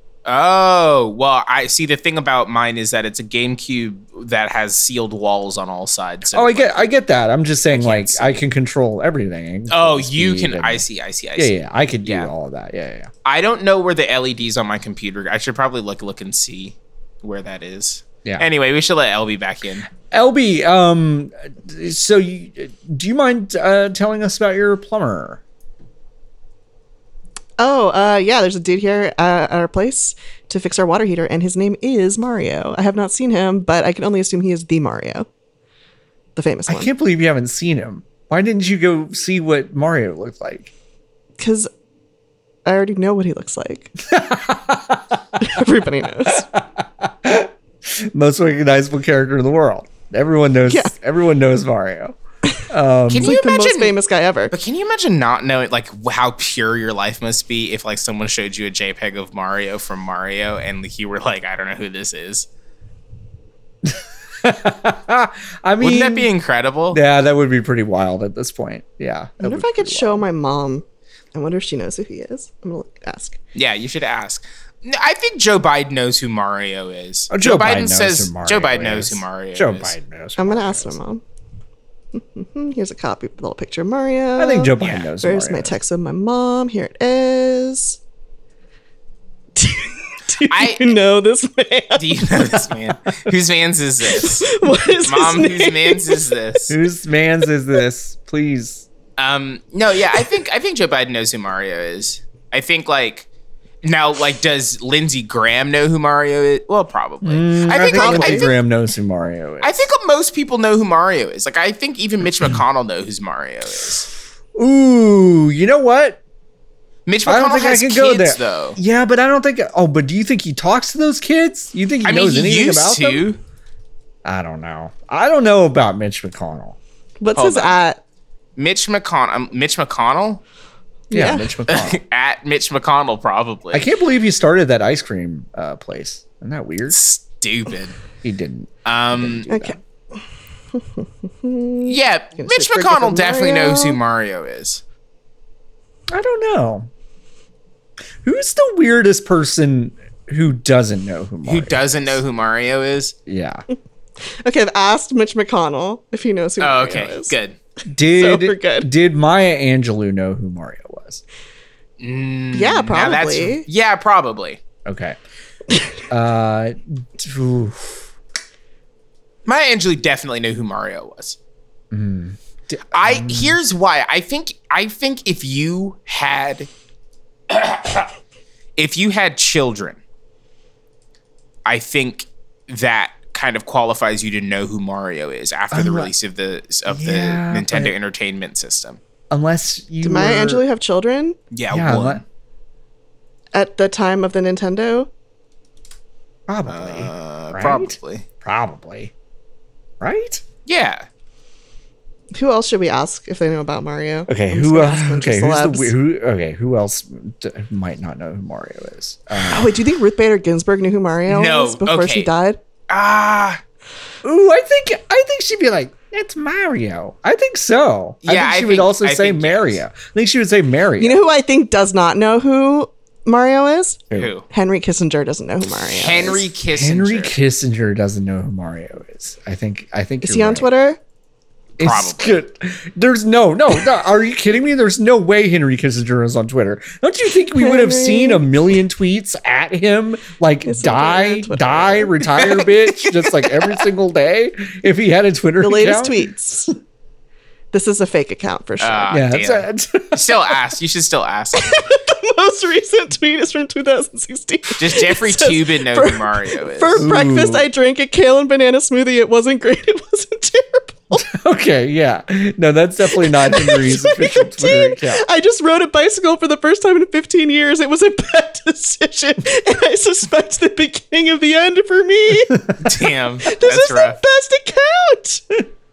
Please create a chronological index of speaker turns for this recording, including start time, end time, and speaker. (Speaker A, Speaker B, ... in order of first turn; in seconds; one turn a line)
Speaker A: 0.2-6.9
Speaker B: 6.3-10.8
Speaker A: 7.7-8.4
Speaker A: 9.7-12.3
Speaker B: 11.4-13.1
Speaker A: 13.2-19.9
Speaker B: 20.1-25.4
Speaker C: 27.6-35.3
Speaker C: 36.4-36.9
Speaker B: 36.7-40.7
Speaker C: 41.4-41.7
Speaker C: 42.6-43.9
Speaker B: 44.1-45.4
Speaker C: 45.4-46.5
Speaker B: 46.3-52.1
Speaker C: 50.7-50.9
Speaker B: 52.7-53.4
Speaker A: 53.1-53.9
Speaker C: 53.2-54.5
Speaker A: 54.5-62.5
Speaker B: 63.8-66.3
Speaker A: 65.8-67.0
Speaker B: 66.9-70.2
Speaker C: 69.4-73.4
Speaker A: 73.5-79.9
Speaker B: 77.3-81.0
Speaker C: 80.4-81.2
Speaker C: 82.1-88.0
Speaker B: 84.4-85.8
Speaker A: 84.8-85.1
Speaker C: 89.5-92.6
Speaker A: 90.5-90.9
Speaker A: 92.0-96.7
Speaker C: 94.1-96.4
Speaker B: 96.7-98.8
Speaker A: 99.2-103.3
Speaker A: 103.8-108.5
Speaker B: 107.2-109.9
Speaker C: 107.7-108.5
Speaker A: 109.6-114.1
Speaker B: 114.5-116.2
Speaker A: 117.0-118.8
Speaker B: 117.2-123.2
Speaker A: 122.0-123.4
Speaker B: 124.2-126.8
Speaker C: 127.2-128.0
Speaker A: 127.3-127.8
Speaker A: 128.6-130.4
Speaker C: 131.1-131.5
Speaker B: 131.1-132.0
Speaker A: 131.7-133.8
Speaker B: 133.7-137.0
Speaker A: 136.9-138.0
Speaker B: 138.2-139.8
Speaker A: 138.8-139.5
Speaker C: 139.5-139.8
Speaker C: 140.7-144.0
Speaker A: 141.8-144.8
Speaker B: 146.1-146.9
Speaker B: 148.2-152.2
Speaker A: 151.4-153.1
Speaker B: 153.3-153.6
Speaker C: 154.4-157.3
Speaker A: 156.6-157.6
Speaker B: 157.8-161.2
Speaker C: 158.1-158.9
Speaker A: 162.0-164.6
Speaker C: 162.5-163.7
Speaker B: 164.8-165.2
Speaker B: 166.1-168.1
Speaker A: 169.4-171.4
Speaker B: 171.9-173.6
Speaker A: 172.9-176.7
Speaker A: 177.5-178.1
Speaker A: 178.8-180.0
Speaker A: 181.6-189.0
Speaker B: 185.7-186.1
Speaker B: 186.9-187.9
Speaker B: 189.3-190.6
Speaker C: 190.0-191.4
Speaker A: 191.5-192.2
Speaker B: 191.7-192.2
Speaker C: 193.5-195.1
Speaker B: 196.5-199.1
Speaker A: 196.7-198.2
Speaker B: 200.0-200.4
Speaker A: 200.7-201.1
Speaker C: 202.3-205.9
Speaker B: 204.3-209.8
Speaker C: 209.4-212.6
Speaker A: 211.3-212.3
Speaker A: 212.9-213.6
Speaker B: 214.2-221.2
Speaker A: 218.2-219.8
Speaker C: 221.0-226.4
Speaker A: 224.1-224.4
Speaker A: 225.9-227.3
Speaker B: 226.7-230.7
Speaker C: 230.2-231.0
Speaker A: 231.8-232.4
Speaker B: 231.8-246.7
Speaker C: 237.6-238.4
Speaker C: 240.6-242.4
Speaker A: 242.4-243.9
Speaker C: 245.6-246.7
Speaker C: 247.7-249.2
Speaker A: 248.8-251.7
Speaker B: 249.1-250.6
Speaker C: 251.6-261.2
Speaker A: 254.8-257.1
Speaker B: 257.0-257.6
Speaker B: 261.2-265.2
Speaker C: 263.1-272.7
Speaker A: 272.8-274.2
Speaker C: 273.4-275.6